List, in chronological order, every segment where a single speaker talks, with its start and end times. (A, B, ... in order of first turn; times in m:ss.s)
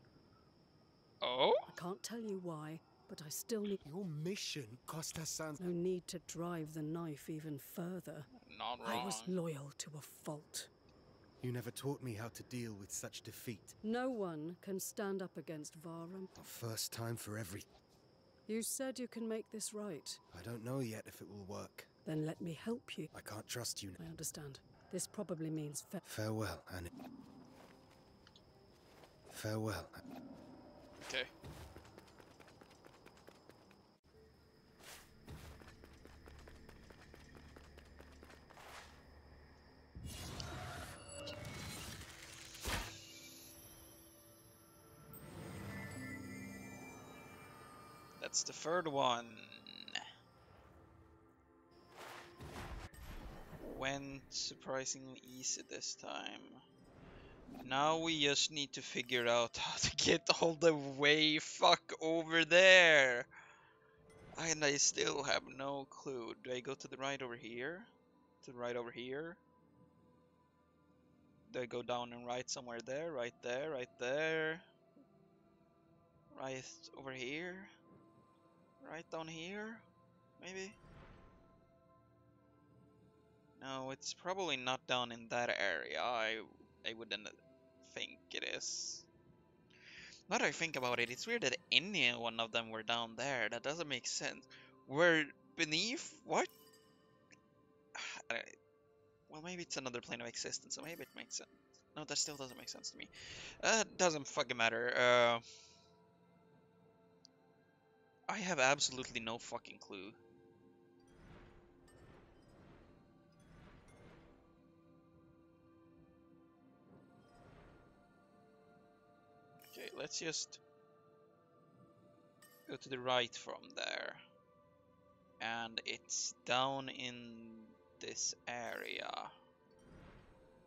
0:01.2-0:01.6 A
0:01.7-0:03.8 B
0:03.8-0:05.6 C
0:05.6-0:08.3 B
0:08.4-0:09.4 A
0:08.8-0:10.7 B
0:11.4-0:13.8 C
0:13.8-0:16.3 B
0:16.4-0:17.7 C
0:18.5-0:20.2 B
0:20.3-0:21.9 C
0:22.1-0:23.1 B
0:23.1-0:24.0 C
0:24.0-0:26.0 B
0:26.0-0:26.9 C
0:29.3-0:30.0 C
0:48.2-0:50.0 A
0:53.6-0:56.6 A
0:57.6-1:03.3 A
1:04.4-1:07.9 A
1:08.4-1:09.4 A
1:11.5-1:14.6 A
1:16.3-1:17.7 A
1:18.8-1:19.8 A
1:20.4-1:20.8 A
1:23.6-1:29.1 A
1:30.3-1:36.5 A
1:38.0-1:38.6 A
1:39.3-1:45.4 A
1:48.3-1:50.2 A
1:59.7-2:00.6 A
2:02.7-2:04.2 A
2:05.4-2:09.3 A